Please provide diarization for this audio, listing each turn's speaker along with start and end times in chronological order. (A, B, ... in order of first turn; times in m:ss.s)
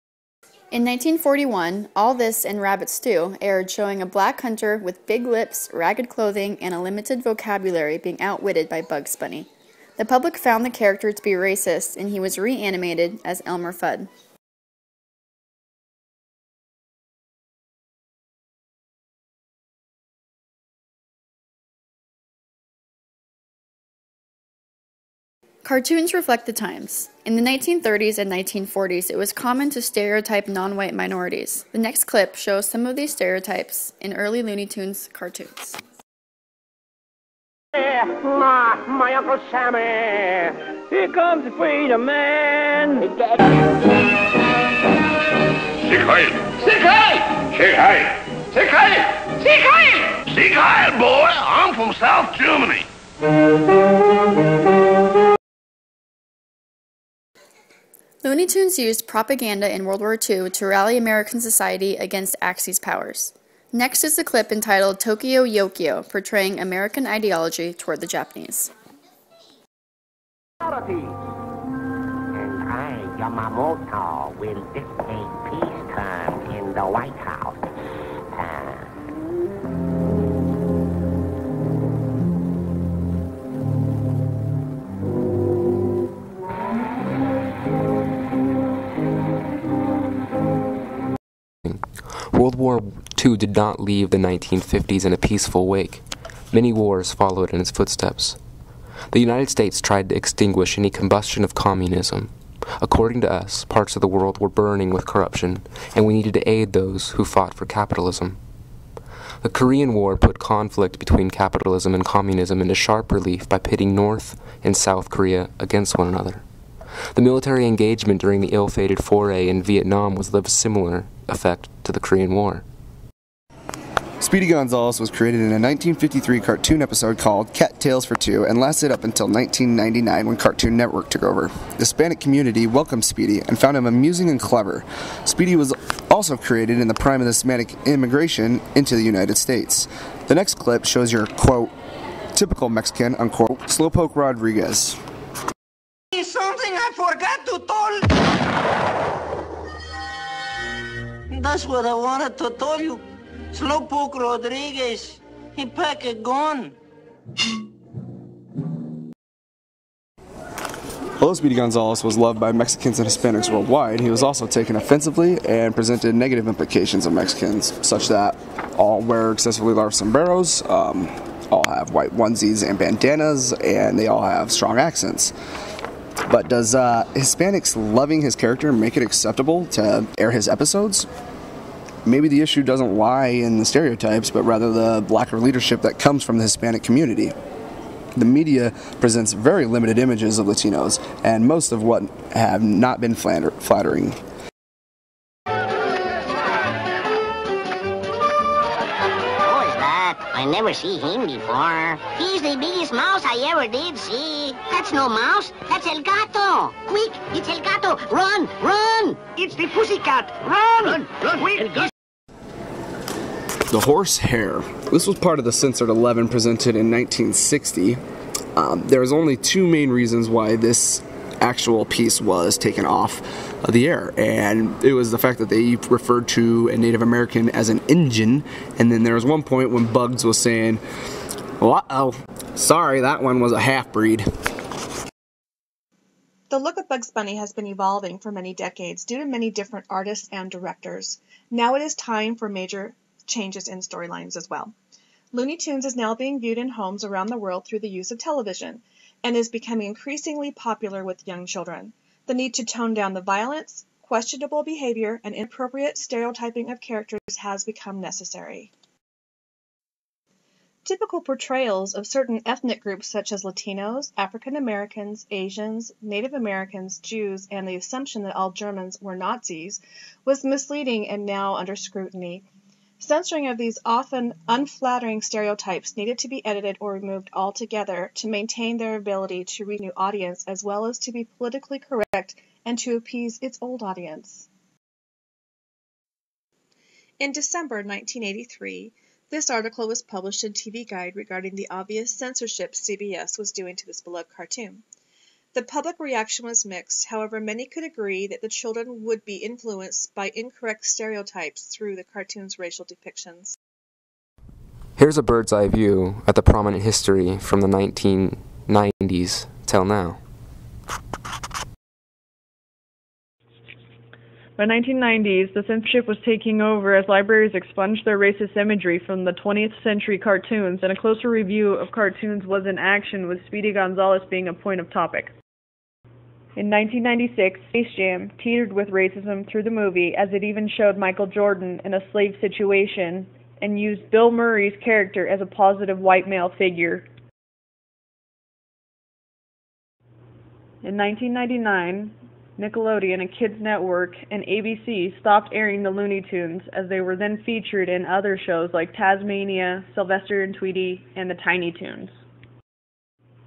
0:00.7-0:14.1 A
0:25.6-0:35.8 A
0:37.9-0:40.4 B
0:40.9-0:43.3 B
0:45.9-0:49.2 C
0:50.3-0:52.8 C
0:58.2-1:08.7 A
1:12.3-1:17.8 D
1:18.3-1:18.9 D
1:31.7-1:38.4 E
1:39.1-1:48.4 E
1:49.4-1:56.4 E
1:57.1-2:02.6 E
2:04.2-2:21.7 F
2:22.3-2:25.0 F
2:26.1-2:28.1 G
2:31.3-2:33.0 G
2:33.5-2:36.8 G
2:41.2-2:55.3 F
2:56.2-3:01.1 F
3:02.1-3:07.3 F
3:08.2-3:14.2 F
3:19.4-3:29.2 D
3:29.4-3:31.4 G
3:33.7-3:38.0 F
3:38.6-3:50.8 F
3:51.6-3:54.2 F
3:56.5-4:04.7 H
4:05.3-4:18.7 H
4:20.8-4:32.4 H
4:33.0-4:44.5 H
4:47.2-4:54.8 H
4:55.5-5:03.6 H
5:05.0-5:10.2 E
5:14.6-5:25.3 I
5:26.6-5:37.1 I
5:40.8-5:52.1 I